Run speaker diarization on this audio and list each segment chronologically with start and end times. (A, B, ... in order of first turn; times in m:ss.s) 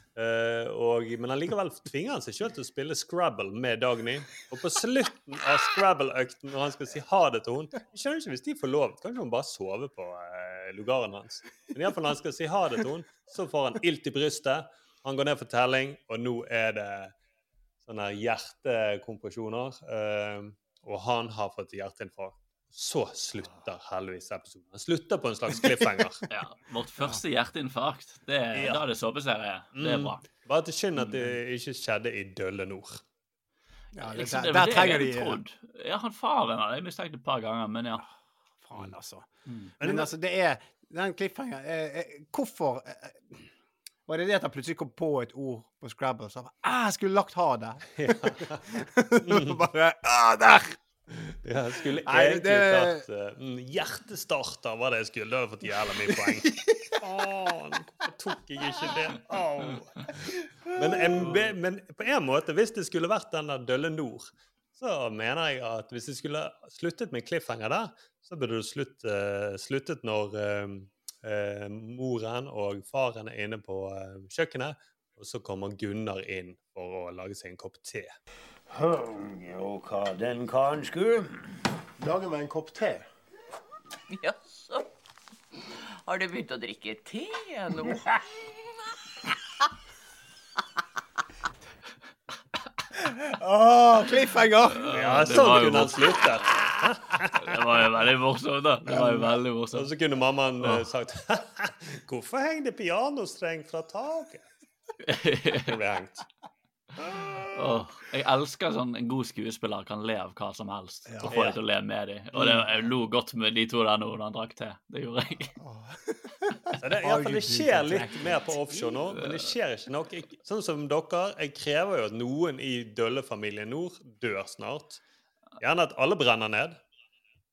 0:00.2-0:17.1 A
0:17.8-0:26.2 A
0:26.3-0:30.2 B
0:28.5-0:28.8 A
0:29.7-0:33.0 A
0:33.9-0:35.4 C
0:34.1-0:38.0 B
0:38.6-0:43.4 C
0:39.8-0:40.1 A
0:44.1-0:48.0 C
0:48.0-0:48.7 A
0:48.7-0:50.8 C
0:49.2-0:49.6 A
0:51.4-1:00.1 A
0:52.0-0:53.0 C
0:56.2-0:56.9 C
1:00.7-1:18.2 A
1:00.8-1:01.2 C
1:18.7-1:21.4 D
1:22.0-1:23.1 D
1:24.1-1:24.8 E
1:26.1-1:28.0 E
1:33.0-1:34.8 C
1:34.7-1:36.2 B
1:34.9-1:37.6 A
1:37.4-1:39.9 B
1:39.7-1:44.5 A
1:45.0-1:45.7 B
1:45.7-1:46.2 A
1:47.4-1:55.6 B
1:51.1-1:51.5 C
1:51.3-1:51.6 A
1:55.6-1:59.0 C
1:56.8-2:05.0 A
2:05.6-2:06.8 A